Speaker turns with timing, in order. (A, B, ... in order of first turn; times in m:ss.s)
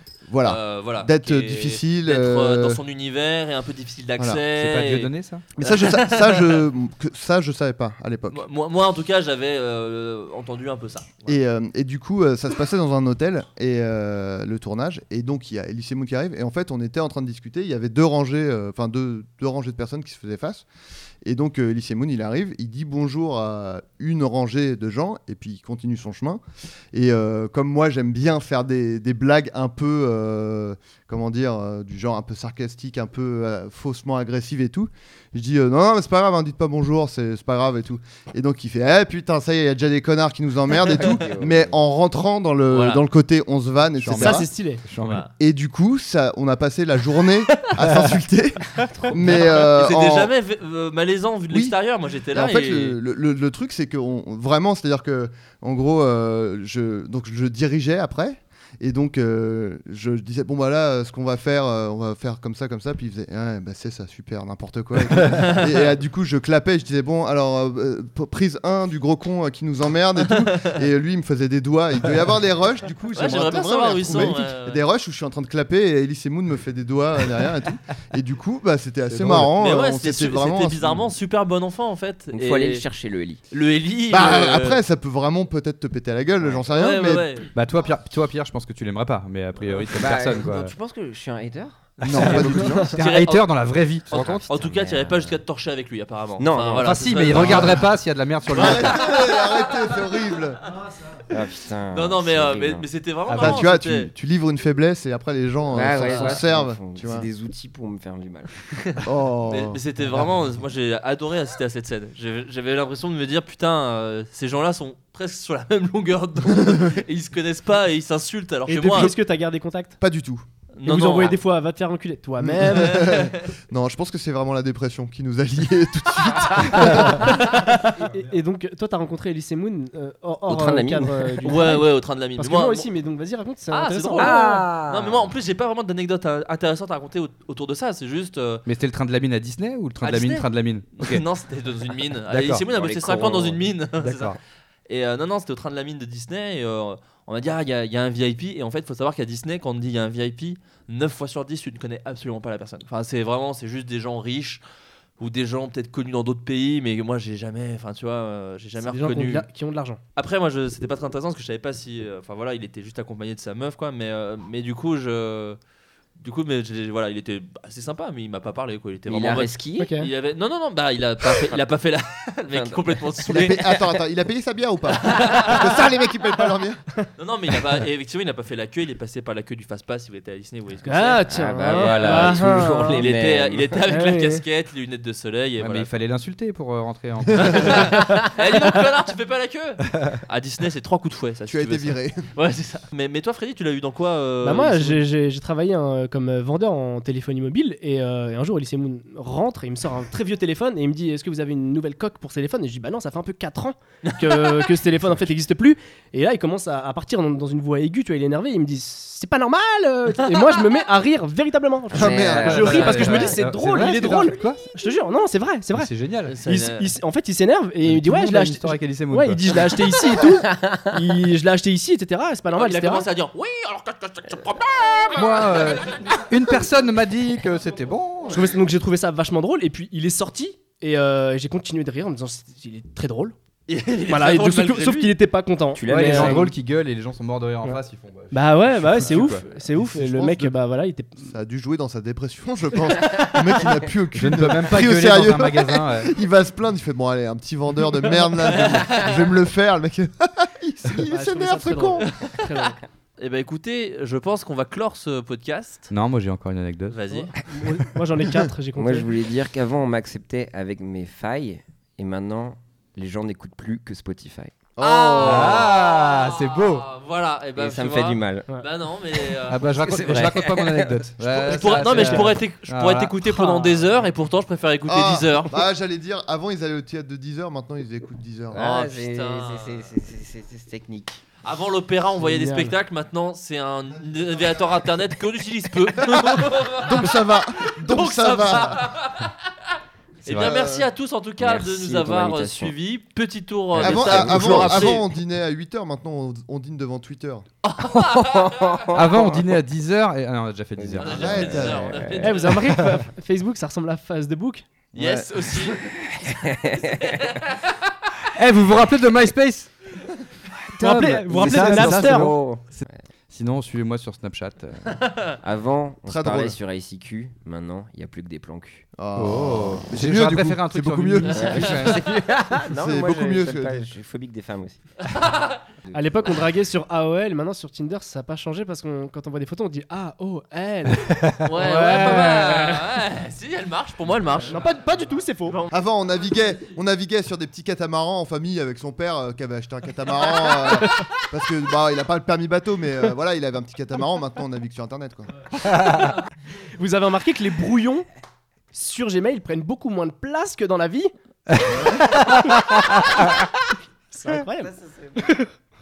0:00.3-0:02.8 A
0:00.4-0:06.6 B
0:04.5-0:05.4 C
0:05.6-0:08.4 A
0:08.3-0:11.4 B
0:11.3-0:20.6 A
0:21.2-0:26.4 A
0:26.9-0:44.5 A
0:40.9-0:41.8 D
0:42.7-0:43.0 B
0:44.0-0:45.2 C
0:44.1-0:44.8 E
0:45.0-0:45.3 B
0:45.4-0:50.3 A
0:49.1-0:53.0 B
0:51.5-0:51.8 A
0:52.3-1:21.0 A
1:05.2-1:05.8 B
1:10.3-1:10.8 B
1:13.1-1:14.8 B
1:19.1-1:19.5 C
1:19.6-1:22.8 B
1:22.3-1:23.4 D
1:23.5-1:24.8 B
1:24.1-1:27.3 A
1:26.8-1:27.5 B
1:27.5-1:30.7 C
1:29.8-1:32.9 D
1:32.0-1:33.5 B
1:32.0-1:34.5 C
1:32.4-1:32.8 A
1:34.1-1:37.8 B
1:34.1-1:35.4 D
1:36.4-1:37.8 D
1:36.8-1:39.2 C
1:37.3-1:37.8 A
1:38.5-1:40.6 A
1:38.6-1:38.9 B
1:41.3-1:42.8 D
1:41.9-1:44.1 B
1:43.3-1:43.7 C
1:43.4-1:47.3 A
1:45.7-1:48.7 D
1:46.0-1:46.4 B
1:48.8-1:59.1 B
1:49.0-1:49.8 A
1:56.5-1:57.0 A
1:58.7-2:00.0 E
1:58.8-1:59.1 A
2:00.0-2:00.4 A
2:00.8-2:01.4 B
2:00.8-2:03.3 E
2:02.4-2:07.4 A
2:02.7-2:03.4 B
2:06.9-2:14.7 E
2:07.2-2:07.8 B
2:10.5-2:11.5 D
2:11.4-2:12.9 B
2:13.7-2:18.6 B
2:14.2-2:15.3 D
2:18.6-2:21.2 C
2:20.0-2:34.6 B
2:22.3-2:22.6 C
2:22.7-2:23.7 D
2:24.0-2:24.4 C
2:35.2-2:39.5 B
2:38.8-2:40.0 E
2:40.2-2:45.6 B
2:46.2-2:53.6 B
2:49.1-2:49.9 D
2:49.8-2:50.1 E
2:51.3-2:51.6 D
2:52.5-2:54.0 D
2:53.2-2:56.8 A
2:55.0-2:55.7 B
2:57.2-3:05.9 B
3:00.8-3:03.1 E
3:01.3-3:03.8 D
3:03.9-3:04.4 E
3:05.6-3:08.0 C
3:07.4-3:15.0 B
3:07.9-3:08.2 E
3:11.4-3:12.3 A
3:14.4-3:35.9 E
3:24.0-3:24.4 B
3:31.9-3:33.4 D
3:31.9-3:32.7 A
3:32.3-3:34.6 C
3:35.7-3:36.4 C
3:36.2-3:36.9 B
3:36.4-3:43.1 E
3:37.8-3:39.4 C
3:42.5-3:46.1 B
3:45.2-3:48.5 C
3:48.3-3:53.3 E
3:53.7-3:55.1 B
3:54.0-3:56.5 E
3:55.7-3:56.5 D
3:55.9-3:59.5 C
3:58.3-4:01.3 E
3:59.7-4:00.5 A
4:01.2-4:12.1 A
4:04.1-4:06.1 C
4:08.4-4:09.2 B
4:11.0-4:12.8 E
4:12.0-4:12.6 B
4:13.2-4:15.9 B
4:15.9-4:17.0 C
4:16.9-4:17.3 B
4:17.1-4:19.1 E
4:17.6-4:17.9 C
4:18.7-4:24.5 D
4:24.8-4:25.8 A
4:24.8-4:29.7 B
4:25.2-4:26.9 C
4:27.6-4:28.5 D
4:29.1-4:31.1 D
4:29.4-4:33.5 C
4:31.3-4:35.6 B
4:31.6-4:32.3 E
4:33.3-4:33.8 E
4:34.9-4:38.7 A
4:38.5-4:41.2 D
4:38.5-4:39.9 B
4:41.4-4:49.4 B
4:42.2-4:42.7 E
4:46.2-4:48.9 A
4:50.2-4:55.0 B
4:50.2-4:50.9 A
4:51.4-4:52.7 D
4:53.7-4:55.0 D
4:53.8-4:57.4 A
4:57.6-4:58.9 B
4:57.8-4:59.6 D
4:58.9-5:01.7 C
5:00.8-5:02.6 D
5:01.0-5:02.7 B
5:01.1-5:02.0 A
5:02.2-5:04.7 E
5:02.6-5:03.0 C
5:04.9-5:05.9 B
5:04.9-5:05.8 A
5:06.1-5:07.2 D
5:06.8-5:07.8 B
5:08.3-5:09.7 C
5:10.5-5:15.0 C
5:10.7-5:12.3 E
5:11.3-5:12.9 D
5:14.9-5:15.4 B
5:15.4-5:18.9 D
5:16.0-5:16.6 A
5:19.0-5:23.9 A
5:19.2-5:22.3 C
5:21.3-5:25.0 D
5:21.3-5:21.6 B
5:25.0-5:25.6 B
5:25.8-5:26.4 D
5:25.9-5:32.9 E
5:31.1-5:31.4 C
5:31.4-5:34.7 B
5:34.5-5:35.6 E
5:35.5-5:35.7 B
5:35.7-5:45.3 A
5:40.7-5:41.1 E
5:46.8-5:48.1 E
5:48.7-5:51.1 E
5:51.5-5:53.5 C
5:54.1-5:55.5 E